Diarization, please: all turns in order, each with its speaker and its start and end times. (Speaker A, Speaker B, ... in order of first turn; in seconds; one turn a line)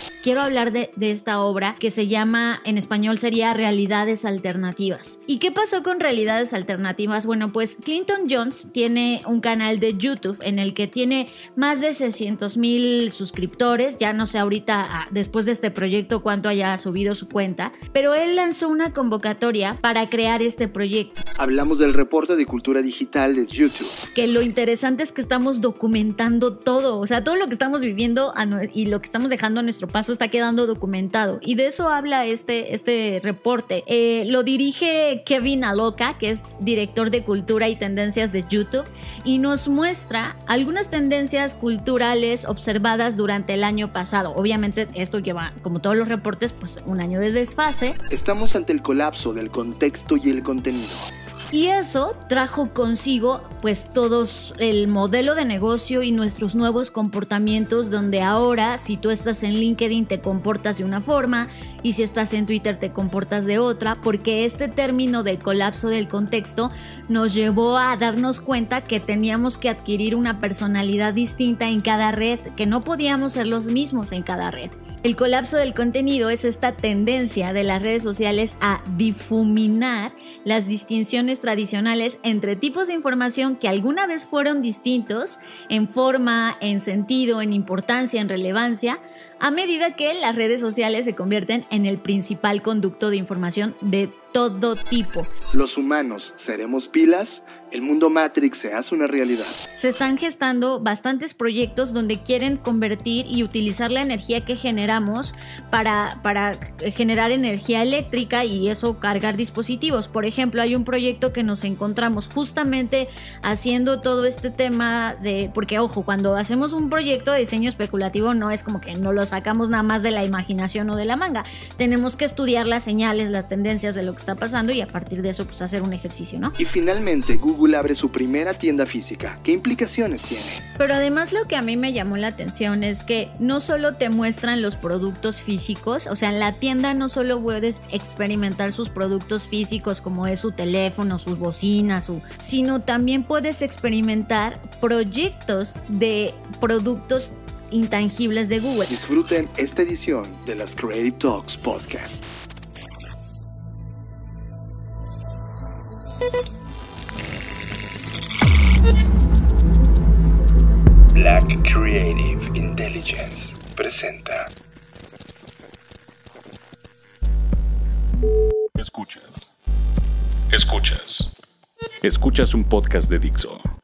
Speaker A: 0.2-21.2
Speaker B: 21.4-24.0
Speaker A: 24.1-48.0
Speaker B: 48.1-51.1
Speaker A: 51.5-95.3
Speaker B: 95.5-99.6
Speaker A: 99.8-126.5
Speaker B: 126.6-130.6
Speaker A: 130.8-148.9
Speaker B: 148.9-152.3
Speaker B: 161.1-164.5
Speaker C: 168.8-169.5
Speaker C: 170.5-171.3
Speaker C: 172.0-173.6